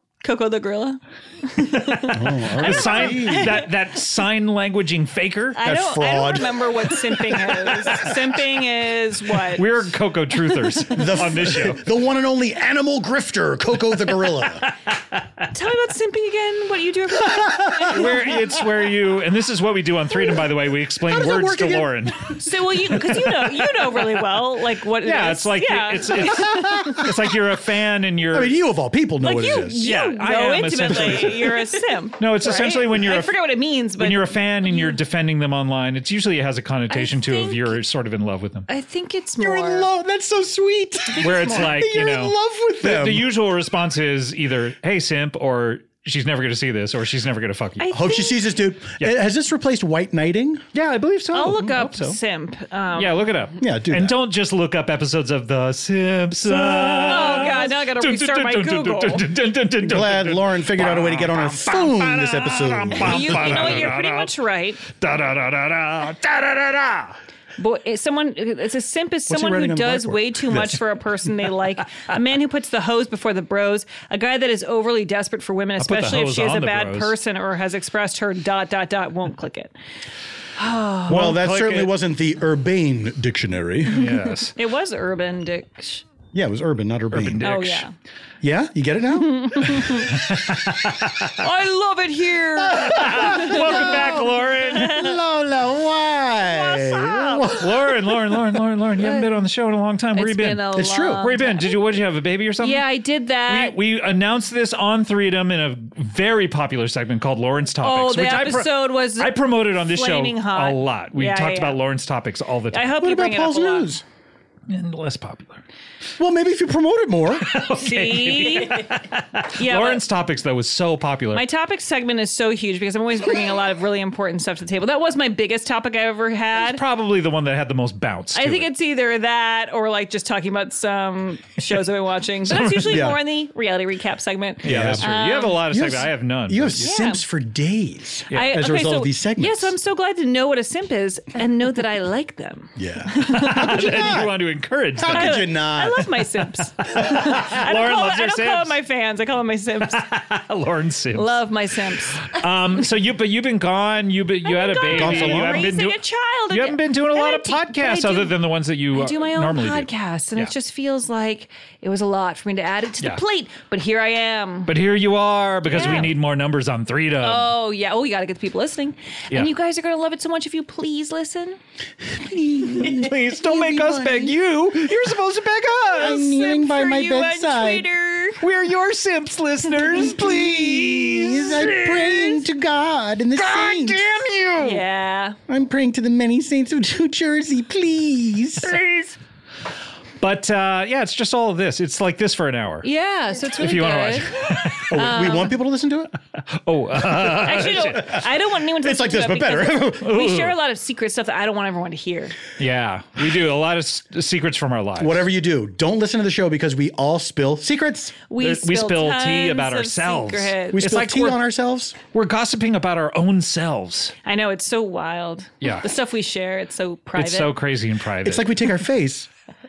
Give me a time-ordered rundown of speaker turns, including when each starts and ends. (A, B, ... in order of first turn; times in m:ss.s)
0:00.2-0:03.7 A
0:02.1-0:03.7 B
0:02.6-0:05.6 C
0:05.6-0:09.8 A
0:05.6-0:08.1 B
0:09.6-0:11.8 C
0:10.9-0:14.7 B
0:15.5-0:18.3 A
0:17.2-0:17.9 B
0:17.9-0:22.4 C
0:21.0-0:22.1 B
0:22.4-0:27.0 A
0:25.0-0:28.6 C
0:26.4-0:27.1 B
0:28.3-0:29.9 B
0:29.2-0:35.0 A
0:29.8-0:31.5 C
0:30.9-0:31.4 B
0:32.2-0:33.3 C
0:34.0-0:38.7 C
0:36.9-0:37.8 A
0:38.7-0:39.9 A
0:39.4-0:43.4 B
0:41.2-0:41.8 A
0:41.2-0:48.0 C
0:47.8-0:48.5 A
0:47.9-0:50.6 B
0:50.7-0:52.2 C
0:51.3-0:53.2 A
0:53.0-1:04.3 C
0:53.6-0:54.2 B
0:56.5-0:59.2 A
0:56.8-0:57.3 B
0:59.8-1:04.0 B
1:03.0-1:04.8 A
1:04.8-1:07.2 C
1:07.6-1:19.7 A
1:09.3-1:10.8 B
1:15.8-1:17.2 C
1:20.6-1:21.2 A
1:21.1-1:21.9 C
1:21.1-1:24.2 B
1:23.9-1:24.5 C
1:24.6-1:26.0 A
1:26.3-1:27.5 B
1:27.1-1:27.8 C
1:27.4-1:27.9 A
1:28.4-1:30.0 B
1:29.1-1:30.2 A
1:30.1-1:31.4 C
1:31.4-1:35.2 A
1:32.6-1:38.0 B
1:32.9-1:35.0 C
1:36.4-1:37.6 A
1:37.6-1:42.8 C
1:40.2-1:41.9 A
1:40.7-1:41.3 B
1:42.6-1:43.8 A
1:43.5-1:52.9 C
1:47.8-1:51.8 A
1:52.7-1:53.9 A
1:53.0-1:54.0 B
1:54.7-1:55.6 C
1:56.2-1:57.5 B
1:57.4-2:01.4 C
1:57.7-1:59.0 A
1:59.6-2:00.0 A
2:01.3-2:06.8 A
2:06.6-2:08.7 C
2:08.3-2:15.6 A
2:12.5-2:13.1 C
2:12.8-2:13.2 B
2:14.6-2:15.1 B
2:14.6-2:16.9 C
2:15.7-2:19.8 B
2:16.8-2:17.2 A
2:18.3-2:24.2 A
2:22.8-2:24.4 B
2:23.3-2:25.5 C
2:25.0-2:26.1 B
2:25.0-2:30.2 A
2:26.9-2:28.8 C
2:29.8-2:31.4 C
2:31.1-2:32.3 A
2:32.2-2:40.5 C
2:34.4-2:38.4 A
2:34.8-2:35.8 B
2:38.9-2:44.7 A
2:44.7-2:47.5 C
2:45.7-2:46.2 A
2:47.2-2:51.6 A
2:52.0-2:54.9 B
2:52.8-2:56.2 C
2:55.9-2:57.9 B
2:56.0-2:58.4 A
2:58.4-3:02.4 C
3:00.2-3:04.1 B
3:03.4-3:04.8 C
3:04.6-3:05.4 A
3:05.5-3:08.8 B
3:10.2-3:12.9 C
3:12.8-3:15.6 A
3:13.6-3:14.9 C
3:14.9-3:16.1 B
3:16.5-3:18.2 C
3:17.1-3:22.4 A
3:18.1-3:20.2 B
3:20.0-3:20.6 C
3:22.6-3:25.3 C
3:25.0-3:28.2 B
3:28.3-3:30.9 A
3:28.4-3:31.4 C
3:30.7-3:32.0 B
3:32.1-3:34.1 C
3:34.2-3:37.6 A
3:37.2-3:38.7 C
3:38.2-3:39.3 B